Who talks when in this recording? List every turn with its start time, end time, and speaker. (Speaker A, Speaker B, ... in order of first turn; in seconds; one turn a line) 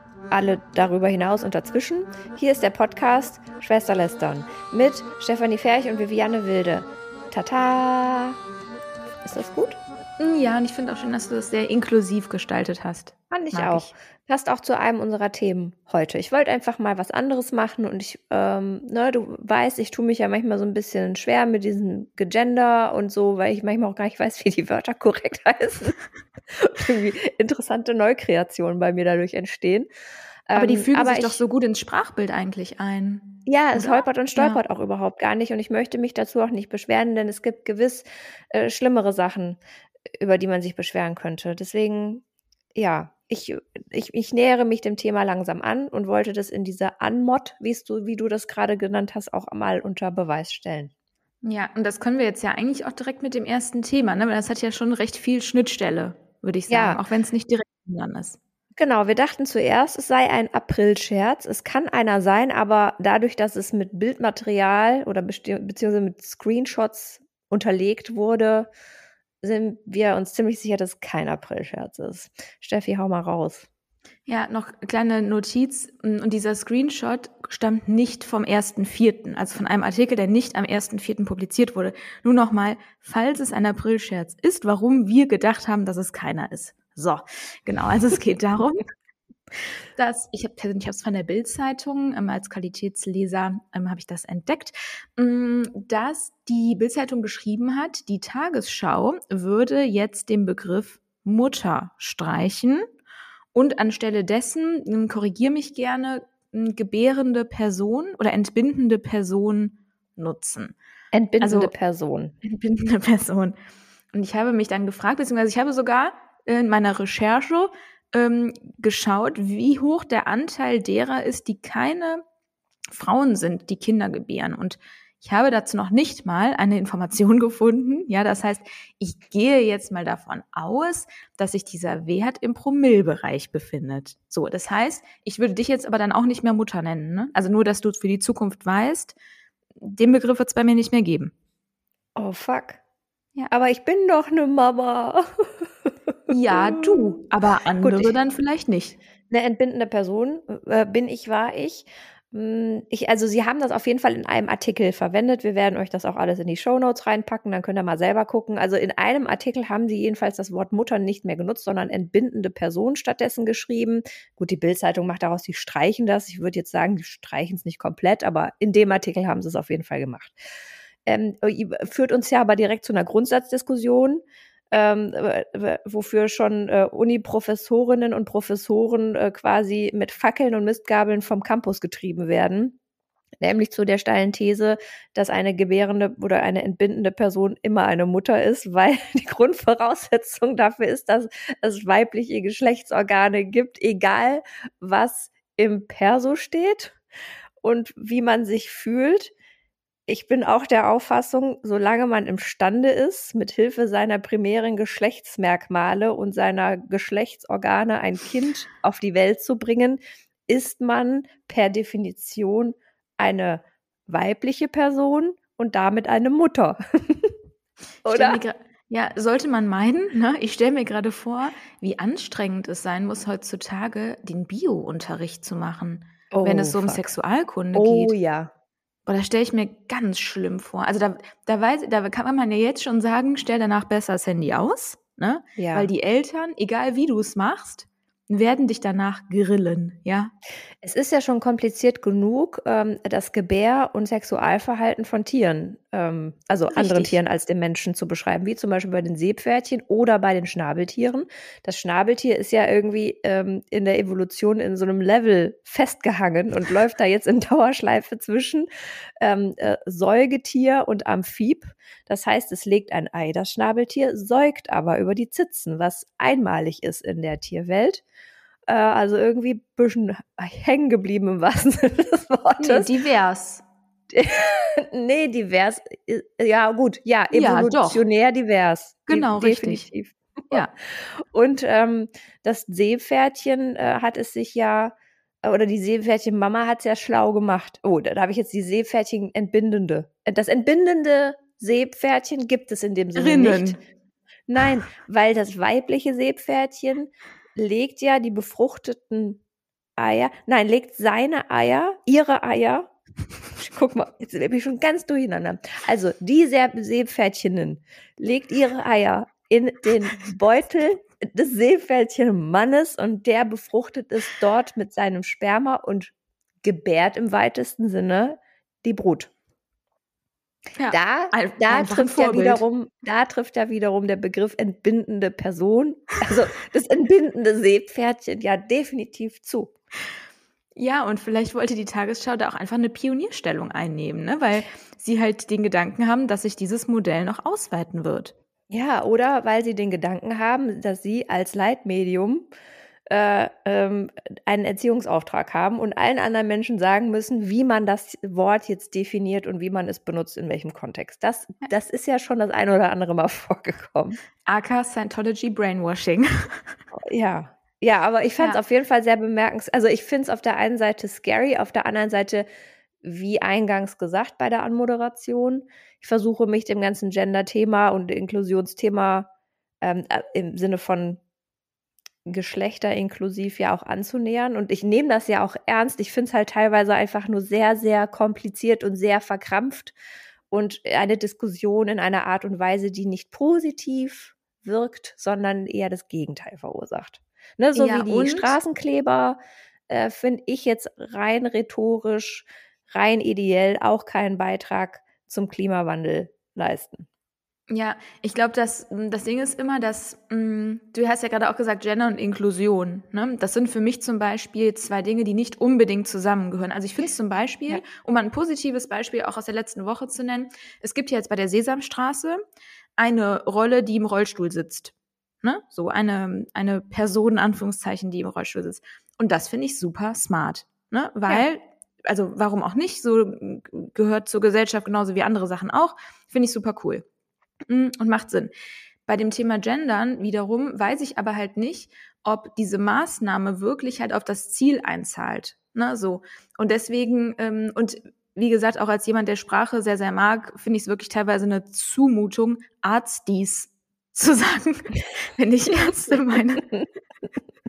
Speaker A: 0.3-8.4
Speaker A: 9.2-9.8
Speaker B: 10.2-13.9
Speaker A: 13.3-26.0
Speaker A: 26.5-29.9
Speaker A: 30.5-31.4
Speaker B: 30.6-34.6
Speaker A: 33.5-39.6
Speaker A: 40.1-42.2
Speaker A: 42.7-50.9
Speaker B: 51.4-58.4
Speaker A: 56.7-57.0
Speaker A: 58.8-68.7
Speaker A: 69.4-73.7
Speaker B: 74.3-88.8
Speaker B: 90.0-102.8
Speaker B: 103.5-110.7
Speaker A: 111.1-112.3
Speaker B: 111.4-111.7
Speaker B: 112.4-113.5
Speaker B: 114.1-122.2
Speaker B: 122.9-139.2
Speaker B: 139.8-141.3
Speaker A: 142.2-142.8
Speaker A: 143.5-145.7
Speaker B: 146.3-149.0
Speaker A: 146.5-147.2
Speaker A: 147.8-148.1
Speaker A: 149.3-170.3
Speaker A: 171.1-182.8
Speaker A: 183.4-197.0
Speaker A: 197.6-199.3
Speaker A: 200.1-217.3
Speaker A: 218.0-218.4
Speaker B: 218.1-228.1
Speaker A: 226.3-227.1
Speaker A: 227.7-228.5
Speaker B: 229.1-240.3
Speaker A: 235.6-235.9
Speaker A: 240.8-258.7
Speaker B: 246.7-247.1
Speaker A: 259.2-268.0
Speaker A: 268.7-272.9
Speaker B: 272.6-273.6
Speaker A: 274.1-293.8
Speaker B: 277.3-278.0
Speaker B: 279.1-279.9
Speaker B: 293.1-293.8
Speaker A: 294.5-299.4
Speaker A: 300.0-302.9
Speaker A: 303.6-319.3
Speaker B: 320.8-322.6
Speaker A: 320.9-329.7
Speaker B: 330.8-338.3
Speaker A: 338.7-342.5
Speaker A: 343.1-354.2
Speaker B: 354.4-356.8
Speaker A: 356.9-362.4
Speaker A: 363.0-369.3
Speaker A: 369.8-371.2
Speaker A: 372.2-379.9
Speaker A: 380.5-397.1
Speaker B: 387.8-388.5
Speaker B: 397.7-412.4
Speaker B: 413.0-427.0
Speaker B: 427.7-428.5
Speaker B: 429.1-446.7